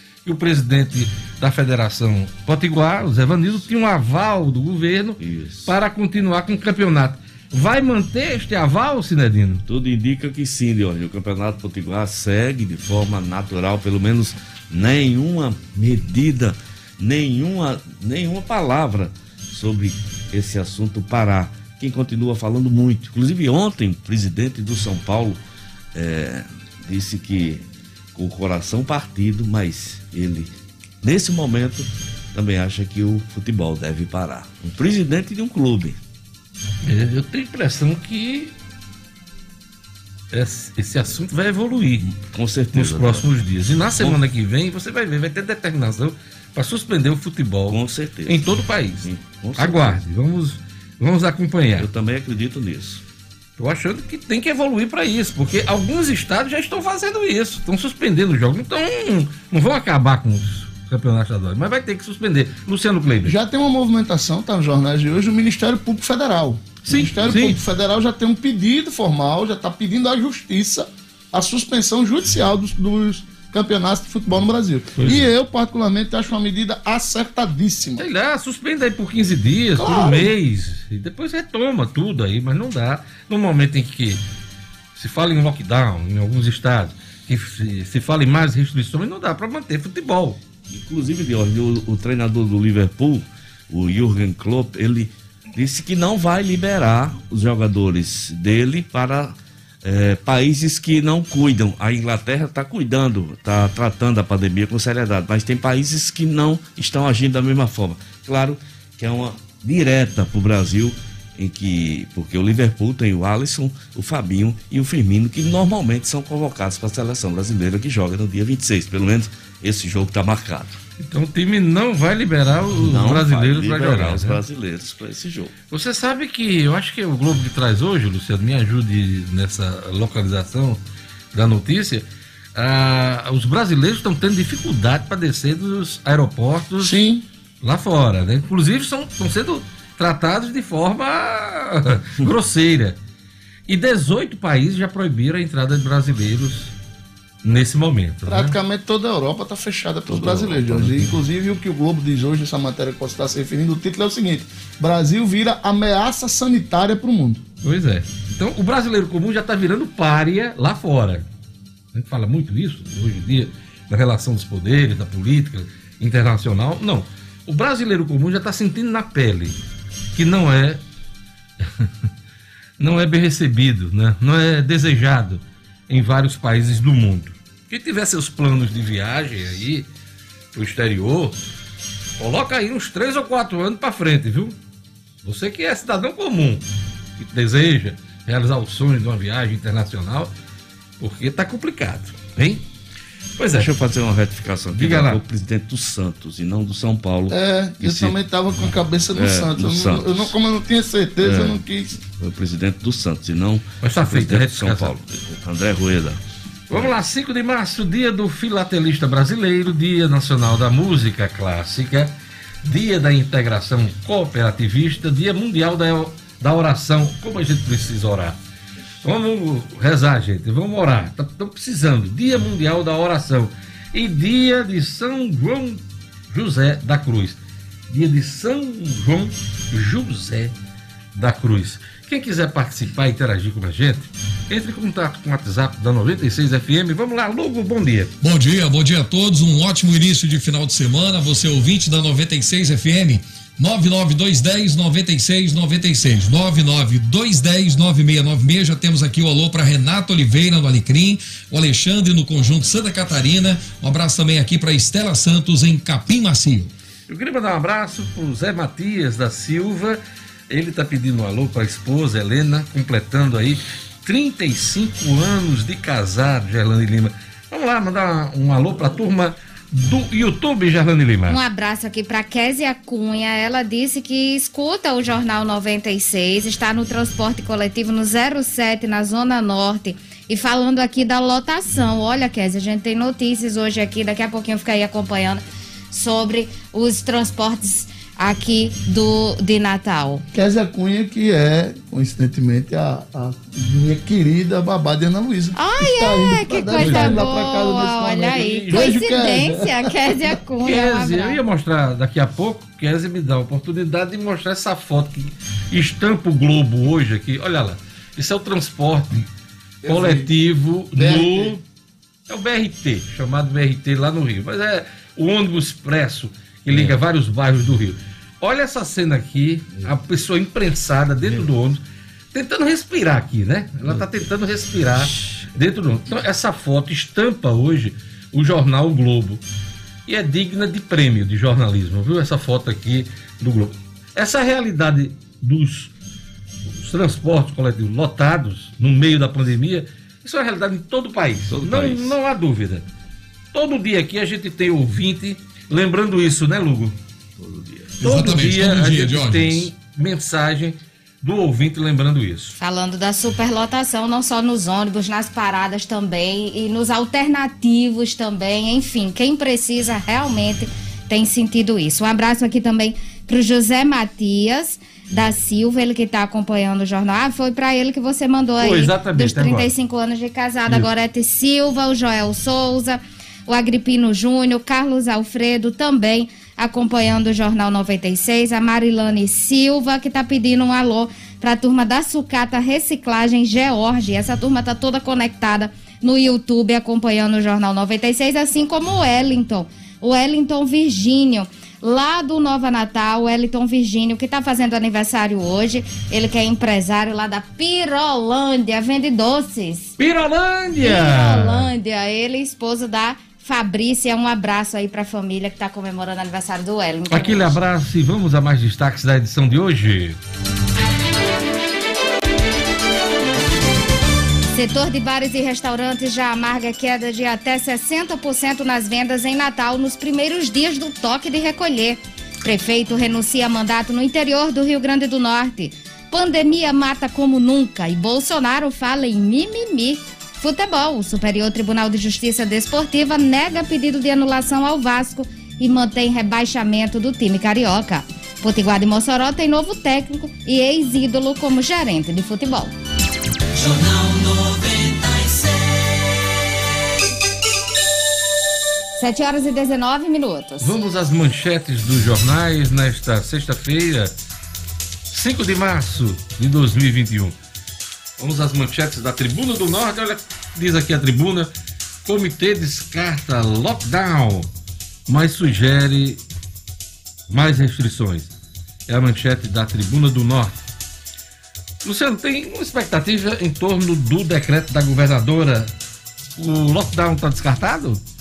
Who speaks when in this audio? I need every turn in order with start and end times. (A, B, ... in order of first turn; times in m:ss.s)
0:00.2-0:09.6 A
0:05.2-0:05.7 B
0:09.7-0:25.4 B
0:25.9-0:27.6 B
0:28.2-0:30.5 B
0:31.0-0:36.0 B
0:36.8-0:38.5 A
0:40.3-0:42.1 A
0:42.1-0:43.3 B
0:42.7-0:51.9 A
0:47.7-0:48.5 B
0:49.0-0:50.0 B
0:51.8-0:53.0 B
0:53.6-1:03.4 A
1:03.2-1:18.1 C
1:06.8-1:07.6 A
1:15.0-1:15.3 A
1:18.0-1:24.2 A
1:19.8-1:20.3 C
1:25.0-1:30.4 A
1:30.7-2:00.8 B
2:01.0-2:04.4 A
2:02.8-2:05.5 B
2:05.7-2:10.8 A
2:11.3-2:17.0 A
2:16.8-2:17.2 C
2:17.6-2:23.0 A
2:23.7-2:26.7 A
2:27.4-2:28.6 A
2:28.3-2:37.4 C
2:30.1-2:31.2 B
2:37.6-2:41.3 A
2:41.9-2:49.6 A
2:50.2-2:50.8 A
2:51.6-2:51.9 A
2:52.8-2:59.9 A
3:00.5-3:01.4 A
3:02.2-3:04.6 A
3:05.2-3:06.6 A
3:07.2-3:10.3 A
3:11.0-3:12.6 A
3:13.4-3:13.7 A
3:13.6-3:20.3 B
3:14.7-3:15.2 A
3:17.3-3:22.0 C
3:21.2-3:26.2 B
3:23.8-3:24.9 A
3:26.7-3:32.1 A
3:26.7-3:27.0 B
3:32.6-3:38.4 A
3:39.0-3:50.5 A
3:51.2-3:58.2 A
3:58.2-4:16.7 D
4:17.1-4:31.4 A
4:31.3-4:50.2 E
4:50.3-5:00.1 C
4:55.6-5:01.4 E
4:56.8-4:59.0 A
5:00.6-5:09.3 A
5:09.8-5:10.3 C
5:09.8-5:11.6 A
5:10.9-5:11.6 C
5:12.3-5:21.8 A
5:16.7-5:17.0 B
5:22.3-5:29.4 A
5:25.2-5:25.5 B
5:30.1-5:35.9 A
5:36.8-5:42.9 A
5:41.5-5:42.2 B
5:43.5-5:47.0 A
5:47.4-5:47.9 B
5:48.0-5:49.7 D
5:48.0-5:52.6 A
5:52.6-6:39.9 E
6:08.6-6:09.7 A
6:40.0-6:41.7 A
6:40.8-6:47.6 E
6:47.1-6:50.2 A
6:54.5-7:22.7 E
7:29.0-7:30.8 E
7:30.6-7:34.1 A
7:35.1-7:37.4 A
7:38.2-7:41.5 A
7:42.0-7:44.5 A
7:45.1-7:46.2 A
7:47.3-7:48.3 A
7:48.9-7:50.6 A
7:51.8-7:55.7 A
7:56.4-7:58.0 A